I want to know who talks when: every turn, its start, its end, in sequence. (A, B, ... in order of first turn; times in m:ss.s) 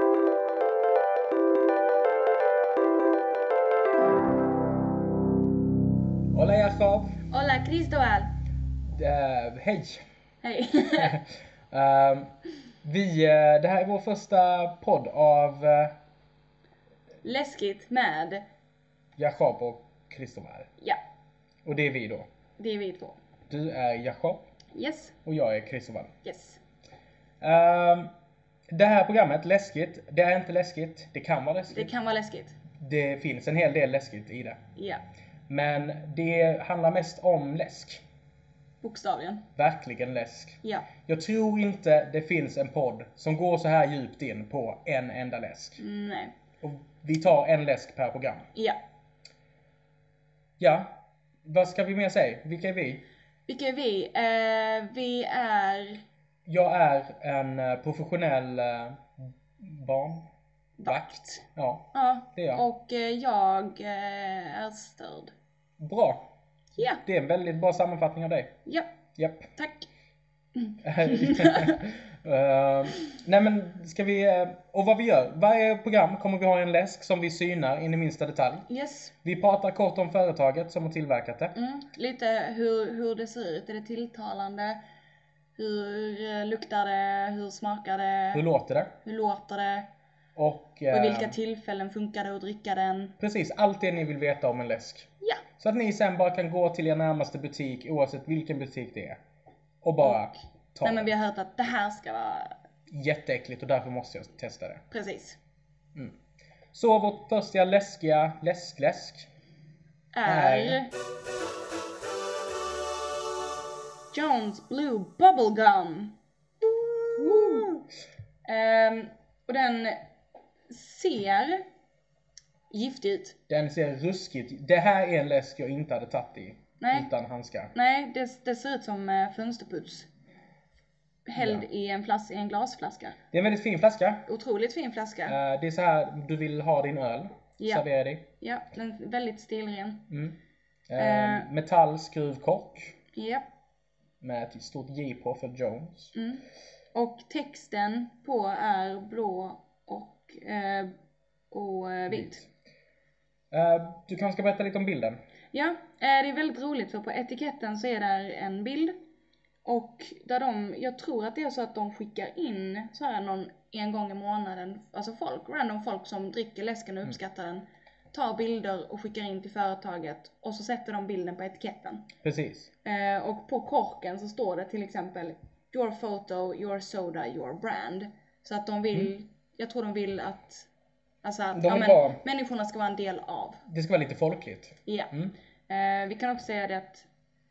0:06.3-0:07.2 A
0:07.3-0:08.3 B
0:08.9-0:10.0 A
0:10.4-0:11.2 B
0:11.0-0:16.0 A
0:17.2-0:18.4 B
0:19.2-0:20.7 A
0:21.6-0:22.3 A
0:22.6-0:23.2 B
0:23.5-0:24.4 A
0:24.7-0:25.2 B
0:25.2-0:26.1 A
0:26.2-0:26.6 B
0:27.4-0:28.1 A
0:28.7-0:31.9 A
0:31.7-0:32.6 B
0:32.8-0:34.6 A
0:34.8-0:35.0 B
0:35.5-0:38.0 A
0:38.8-0:39.4 B
0:39.6-0:45.8 A
0:40.6-0:40.9 B
0:45.8-0:46.3 B
0:46.6-0:48.5 A
0:50.6-0:53.0 A
0:53.5-0:56.0 B
0:56.5-1:00.3 A
1:00.8-1:01.4 B
1:00.8-1:02.6 A
1:01.9-1:05.3 B
1:05.8-1:06.3 A
1:06.8-1:07.0 B
1:07.0-1:08.6 A
1:09.2-1:09.5 A
1:09.6-1:09.9 B
1:10.6-1:11.8 B
1:10.8-1:18.7 A
1:18.7-1:19.1 B
1:19.2-1:21.5 A
1:21.6-1:24.8 B
1:25.6-1:28.4 B
1:28.3-1:29.0 A
1:29.0-1:29.9 B
1:30.4-1:31.4 A
1:30.9-1:33.2 B
1:33.2-1:39.2 A
1:39.8-1:41.1 A
1:40.0-1:40.3 B
1:40.8-1:42.6 B
1:42.9-1:44.8 A
1:44.9-1:45.4 B
1:46.7-1:49.3 A
1:50.1-1:50.9 B
1:50.2-1:50.8 A
1:54.1-1:57.8 B
1:57.2-1:57.7 A
1:58.4-2:00.0 B
2:00.7-2:01.6 B
2:02.7-2:03.4 B
2:03.5-2:07.7 A
2:06.8-2:07.1 B
2:07.8-2:10.1 B
2:11.3-2:13.2 B
2:11.4-2:11.6 A
2:13.3-2:14.3 A
2:14.3-2:15.4 B
2:15.3-2:18.3 A
2:18.4-2:20.1 B
2:20.1-2:20.4 A
2:20.9-2:23.0 A
2:21.0-2:21.5 B
2:23.1-2:23.5 B
2:24.2-2:26.2 A
2:26.2-2:30.9 B
2:31.5-2:32.4 B
2:32.1-2:32.4 A
2:33.5-2:35.2 A
2:35.5-2:39.0 B
2:39.6-2:52.1 B
2:52.2-2:52.7 A
2:52.8-3:00.7 B
3:01.2-3:03.6 B
3:01.5-3:02.2 A
3:03.7-3:05.4 A
3:04.9-3:05.1 B
3:05.7-3:07.1 B